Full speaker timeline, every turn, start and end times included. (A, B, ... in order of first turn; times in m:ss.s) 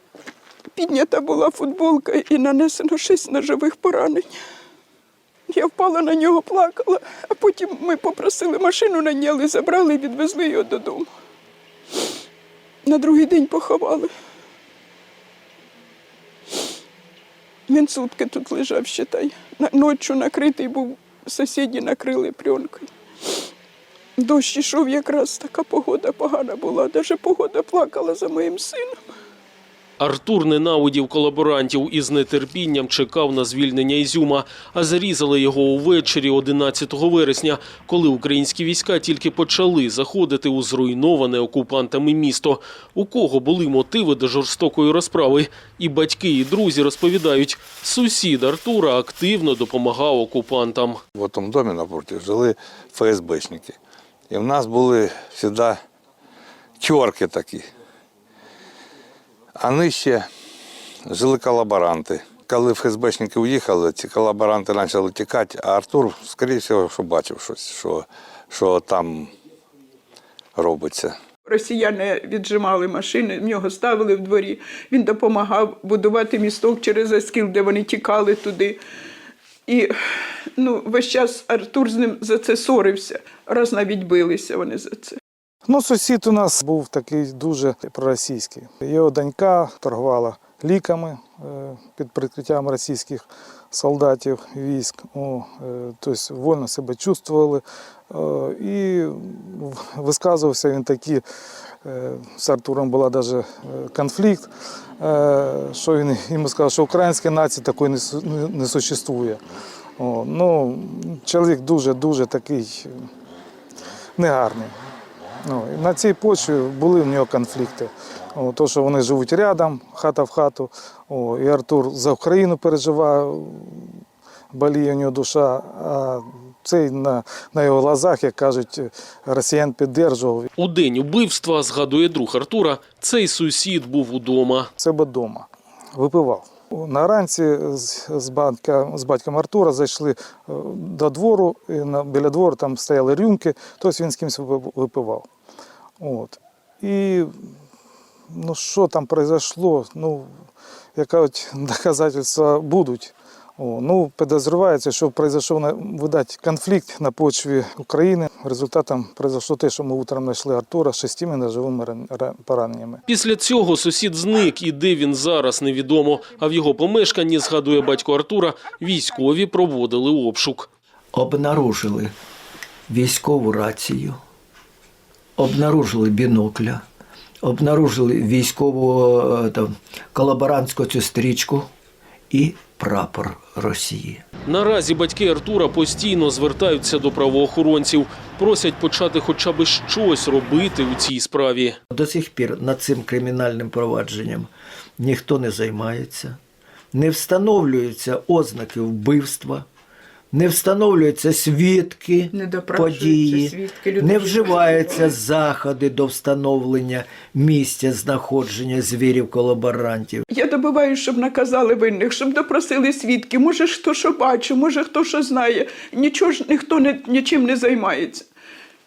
0:00.8-0:04.4 A
0:05.5-0:11.1 A
0:12.8-0:14.1 A
0:17.7-0:22.9 A
0:24.2-0:29.0 A
0:30.0-0:51.0 B
0:51.2-0:53.8 C
0:54.3-0:55.8 C
0:56.8-0:57.7 C
0:59.6-1:00.3 C
1:01.0-1:09.3 C
1:10.5-1:11.2 C
1:11.5-1:18.8 A
1:19.7-1:19.9 A
1:20.6-1:25.2 A
1:25.6-1:41.2 D
1:41.8-1:49.4 D
1:50.0-1:53.1 D
1:54.2-1:54.7 D
1:55.4-2:04.0 D
2:04.5-2:10.5 D
2:10.6-2:14.7 B
2:14.8-2:25.3 D
2:26.0-2:27.3 D
2:28.3-2:30.4 D
2:30.9-2:43.0 D
2:43.1-2:50.7 B
2:51.1-2:52.1 E
2:52.9-2:54.2 E
2:55.4-2:56.8 E
2:57.4-3:01.7 E
3:02.3-3:04.2 E
3:04.4-3:11.8 B
3:11.9-3:16.4 E
3:16.9-3:19.6 E
3:20.3-3:30.2 E
3:22.3-3:25.1 A
3:30.3-3:38.3 A